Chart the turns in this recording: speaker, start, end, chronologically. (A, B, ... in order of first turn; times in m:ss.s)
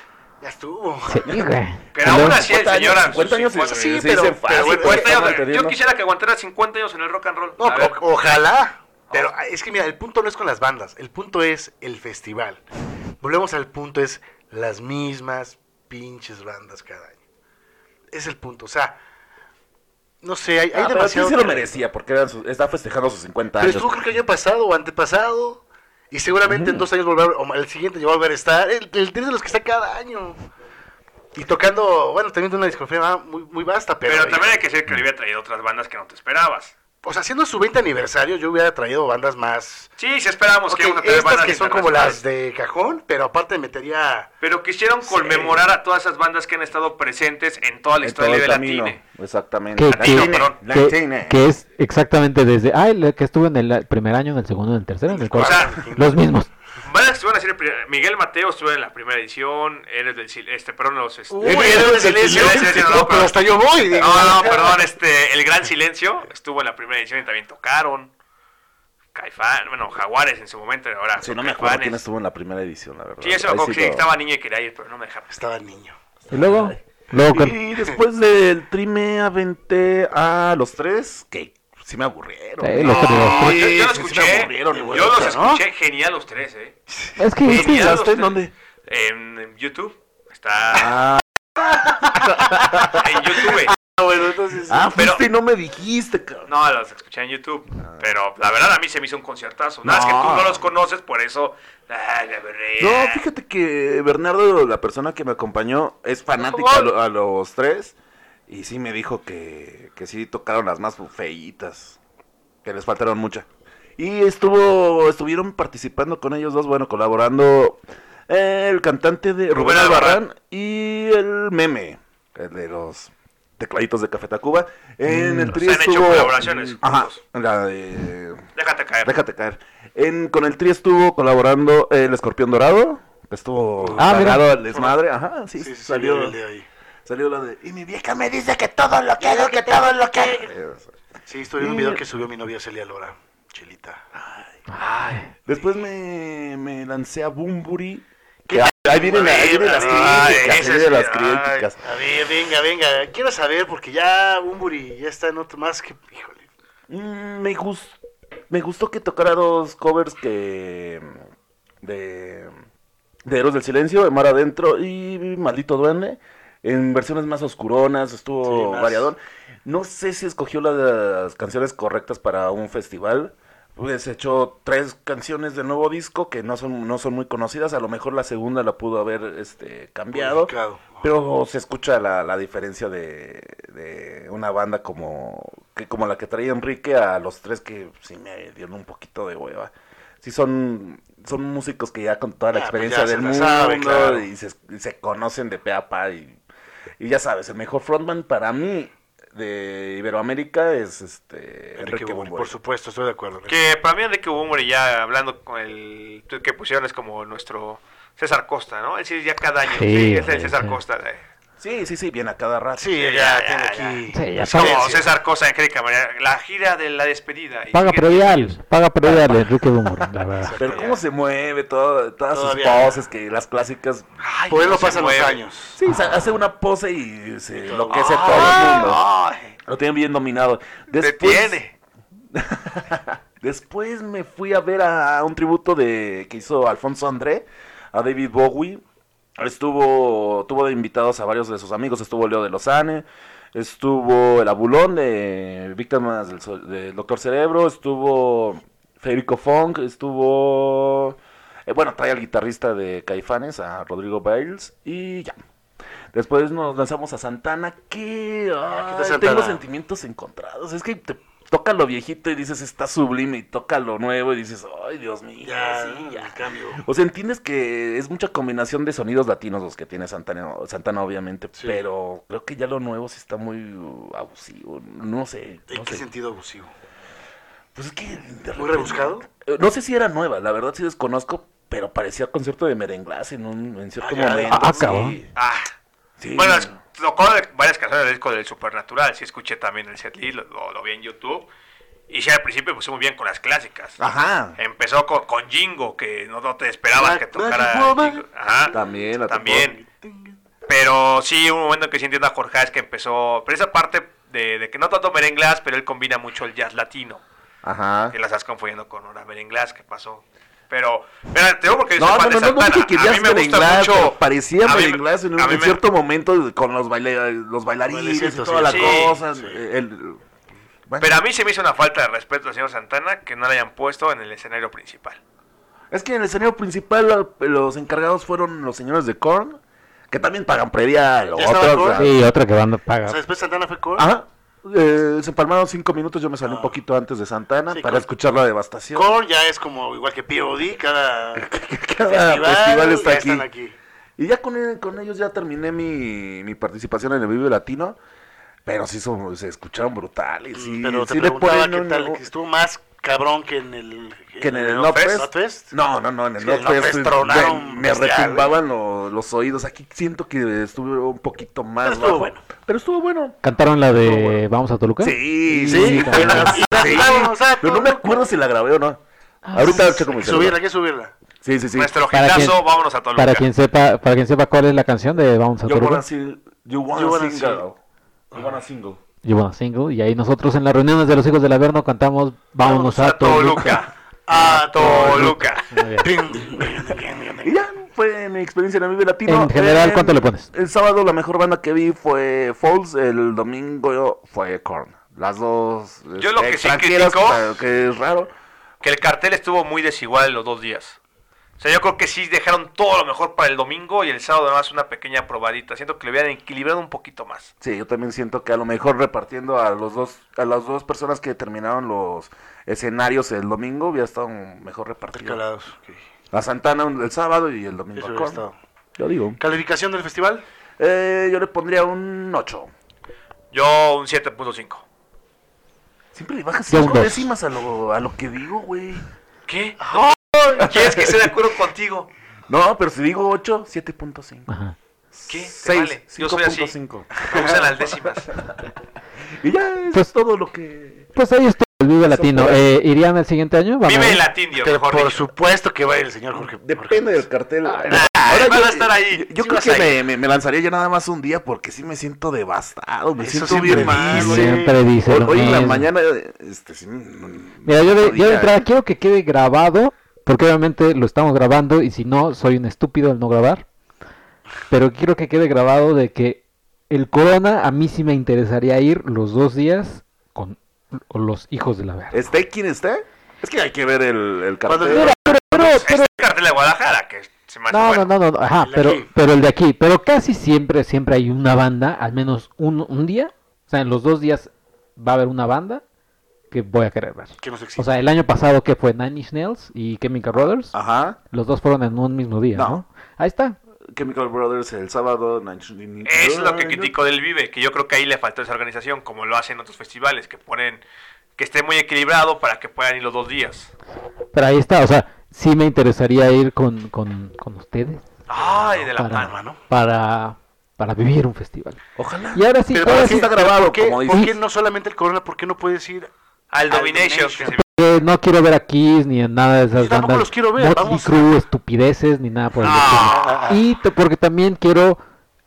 0:00.4-0:01.3 A
0:01.1-0:02.4 B
0:01.9-0:08.0 C
0:02.0-0:05.8 D
0:03.6-0:05.4 A
0:07.6-0:12.6 A
0:13.2-0:17.2 A
0:18.1-0:19.0 A
0:20.2-0:21.7 A
0:20.7-0:24.0 D
0:23.6-0:30.4 A
0:26.5-0:26.8 D
0:31.4-0:34.6 A
0:34.1-0:36.8 C
0:37.0-0:39.9 A
0:40.0-0:42.2 C
0:40.7-0:44.3 A
0:44.4-0:49.0 C
0:45.0-0:45.7 A
0:48.0-0:51.4 D
0:49.8-0:56.5 B
0:49.9-0:50.6 C
0:55.1-0:56.2 A
0:55.4-0:55.8 C
0:56.8-1:03.4 C
1:01.3-1:04.9 A
1:01.4-1:03.1 D
1:03.9-1:08.1 C
1:09.2-1:12.0 C
1:11.2-1:14.1 D
1:13.2-1:15.4 C
1:15.3-1:16.0 A
1:16.3-1:25.4 D
1:16.3-1:17.6 B
1:22.6-1:23.6 B
1:22.8-1:26.8 C
1:24.7-1:25.6 A
1:27.2-1:28.0 B
1:27.4-1:28.5 D
1:27.4-1:31.0 C
1:30.7-1:33.2 D
1:32.9-1:33.8 C
1:33.8-1:34.9 A
1:34.7-1:36.5 D
1:35.0-1:35.2 C
1:36.5-1:43.2 C
1:39.8-1:40.7 D
1:42.8-1:48.0 D
1:46.4-1:46.9 A
1:48.5-1:52.0 D
1:52.6-1:53.5 D
1:54.0-2:08.4 D
1:59.5-2:00.2 C
2:05.1-2:05.6 B
2:05.5-2:07.2 C
2:08.6-2:09.1 C
2:09.0-2:16.4 D
2:13.8-2:15.0 A
2:14.0-2:14.4 B
2:15.6-2:16.7 A
2:17.1-2:20.9 D
2:19.2-2:20.5 A
2:21.3-2:24.0 A
2:21.6-2:22.0 D
2:24.2-2:24.5 D
2:24.7-2:25.3 B
2:24.8-2:25.2 C
2:25.5-2:31.8 D
2:28.5-2:30.6 A
2:29.1-2:31.7 C
2:31.8-2:36.5 A
2:36.9-2:38.0 D
2:38.5-2:41.2 D
2:41.8-2:42.5 D
2:43.2-3:16.4 D
2:48.4-2:49.1 A
3:00.1-3:01.1 A
3:12.5-3:14.3 A
3:17.0-3:22.5 D
3:21.8-3:23.6 A
3:23.5-3:31.2 C
3:29.7-3:30.8 B
3:31.6-3:33.0 D
3:32.8-3:35.1 A
3:33.0-3:38.6 C
3:34.1-3:34.9 B
3:37.7-3:40.6 B
3:40.4-3:41.0 A
3:40.6-3:44.1 D
3:40.6-3:41.0 C
3:42.3-3:43.0 A
3:44.2-3:45.4 C
3:44.5-3:45.8 A
3:45.8-3:49.0 D
3:47.6-3:49.0 A
3:47.9-3:49.6 C
3:49.7-3:51.6 D
3:51.0-3:51.7 C
3:52.3-3:58.8 D
3:59.4-4:15.3 D
4:16.1-4:36.0 D
4:18.7-4:19.6 A
4:25.4-4:26.8 A
4:31.6-4:31.8 A
4:35.7-4:36.7 A
4:37.8-4:45.3 D
4:38.6-4:39.3 A
4:44.0-4:44.8 A
4:44.5-4:45.2 B
4:45.4-4:45.7 C
4:46.2-4:46.8 D
4:46.4-4:51.5 C
4:52.1-4:54.0 C
4:54.0-4:54.6 D
4:54.6-4:58.8 C
4:56.9-4:59.0 A
4:58.7-4:59.7 D
4:59.3-4:59.8 C
4:59.5-5:00.4 A
5:00.7-5:07.2 C
5:07.6-5:08.2 D
5:08.1-5:15.8 C
5:12.0-5:20.2 D
5:17.9-5:19.6 A
5:18.6-5:19.2 C
5:20.9-5:21.2 D
5:21.0-5:25.2 C
5:25.9-5:32.2 D
5:31.3-5:32.1 A
5:32.0-5:33.2 B
5:33.0-5:34.1 A
5:34.0-5:39.1 D
5:36.4-5:36.8 A
5:37.7-5:38.1 A
5:38.9-5:41.5 A
5:41.4-5:43.5 D
5:42.0-5:43.8 A
5:44.2-5:48.0 D
5:48.6-5:52.2 D
5:50.5-5:55.7 A
5:54.4-6:03.4 D
5:54.8-5:55.2 C
5:56.4-5:58.5 A
6:01.8-6:02.4 A
6:03.4-6:06.9 B
6:04.0-6:04.4 D
6:05.0-6:09.0 D
6:05.7-6:08.3 A
6:09.4-6:10.0 B
6:09.5-6:10.6 D
6:09.5-6:11.1 A
6:11.4-6:12.0 D
6:11.7-6:13.5 C
6:12.1-6:12.6 B
6:13.2-6:16.0 B
6:15.6-6:17.8 D
6:16.9-6:17.6 A
6:18.3-6:19.0 D
6:19.2-6:23.8 B
6:22.6-6:25.7 C
6:24.3-6:25.5 A
6:25.7-6:26.1 B
6:26.0-6:27.6 A
6:27.4-6:38.3 D
6:29.3-6:30.5 B
6:36.2-6:37.4 C
6:38.8-6:41.0 C
6:41.6-6:47.5 C
6:47.6-6:55.4 D
6:55.2-6:56.0 A
6:56.3-6:58.4 D
6:58.0-6:58.6 A
6:59.0-6:59.4 D
6:59.4-7:00.4 A
7:00.8-7:02.7 D
7:03.5-7:04.8 C
7:06.1-7:09.1 D
7:06.7-7:07.3 B
7:09.5-7:12.1 C
7:09.8-7:10.7 A
7:10.6-7:11.3 D
7:12.5-7:14.5 D
7:14.5-7:14.8 B
7:15.1-7:17.1 D
7:15.3-7:18.4 C
7:17.3-7:17.6 A
7:19.4-7:21.1 D
7:21.2-7:24.2 B
7:22.0-7:22.6 D
7:23.8-7:25.3 C
7:24.6-7:27.2 A
7:26.4-7:38.6 D
7:27.6-7:28.2 B
7:27.9-7:29.9 C
7:29.6-7:29.9 A
7:33.2-7:34.8 A
7:33.7-7:35.9 B
7:37.6-7:43.7 B
7:44.7-7:52.2 B
7:52.1-7:55.2 D
7:54.7-7:55.4 A
7:54.9-7:56.1 B
7:55.5-7:58.1 C
7:57.7-8:05.8 B
7:58.6-7:59.1 A
8:06.5-8:10.8 B
8:07.4-8:07.9 A
8:10.7-8:11.2 D
8:11.3-8:13.6 B
8:12.5-8:12.8 D
8:13.9-8:16.9 D
8:16.0-8:20.8 C
8:21.4-8:23.7 C
8:24.3-8:28.1 B
8:28.3-8:29.4 C
8:29.0-8:31.8 B
8:29.1-8:29.6 A
8:32.0-8:34.3 D
8:32.3-8:33.3 B
8:32.7-8:36.1 A
8:36.5-8:37.6 C
8:36.7-8:37.6 A
8:37.6-8:45.0 B
8:39.8-8:41.3 A
8:42.6-8:43.4 C
8:42.8-8:43.6 A